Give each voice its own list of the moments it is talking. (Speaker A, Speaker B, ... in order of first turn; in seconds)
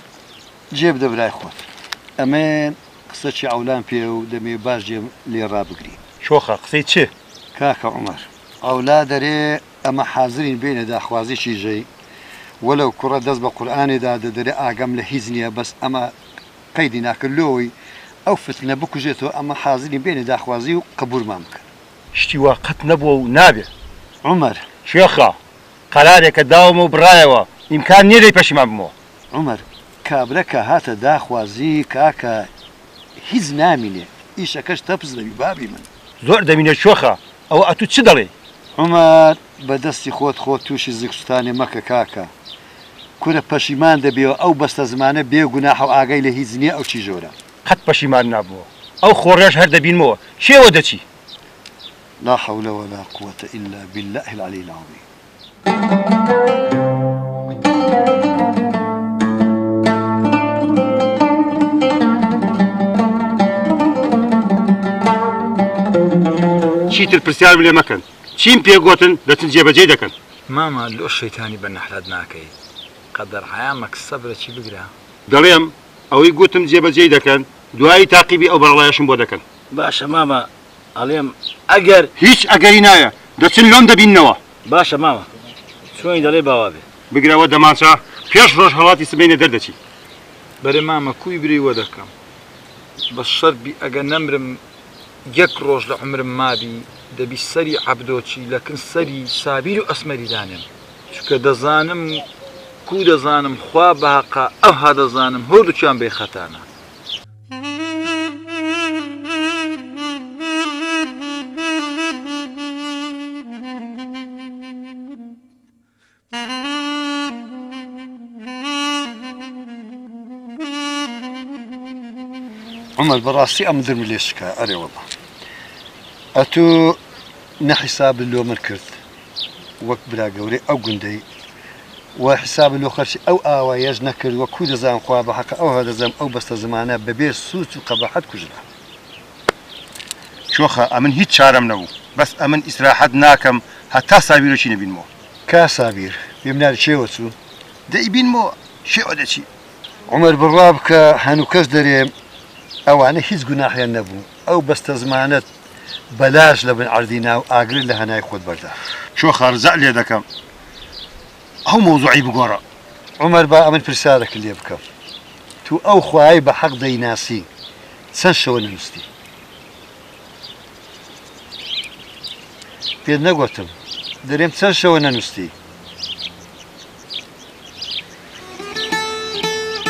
Speaker A: 0.7-1.6, 2.2-6.0, 7.6-11.9, 12.6-16.1, 16.7-17.7, 18.3-21.7, 24.2-24.7, 29.3-32.5, 33.2-35.9, 38.8-42.3, 43.2-47.3, 52.2-55.0, 123.0-125.0, 126.3-127.0, 127.6-129.0, 129.8-131.2, 132.2-138.6, 145.5-147.3, 150.1-152.1, 152.9-155.5, 156.1-158.8, 163.2-164.8, 165.6-167.5, 168.1-169.1, 173.0-173.7, 174.2-175.5
Speaker B: 6.2-7.1, 22.1-23.7, 24.8-25.4, 25.9-28.9, 36.2-38.3, 47.6-51.0, 66.9-70.1, 75.3-79.4, 82.2-84.4, 87.1-89.8, 140.5-145.1, 147.9-149.5, 159.2-160.2, 161.7-162.6
Speaker C: 70.5-72.5, 73.1-74.9, 90.6-92.1, 93.1-94.6, 95.3-102.2, 102.9-106.6
Speaker D: 79.7-82.1, 84.7-85.3, 86.0-86.8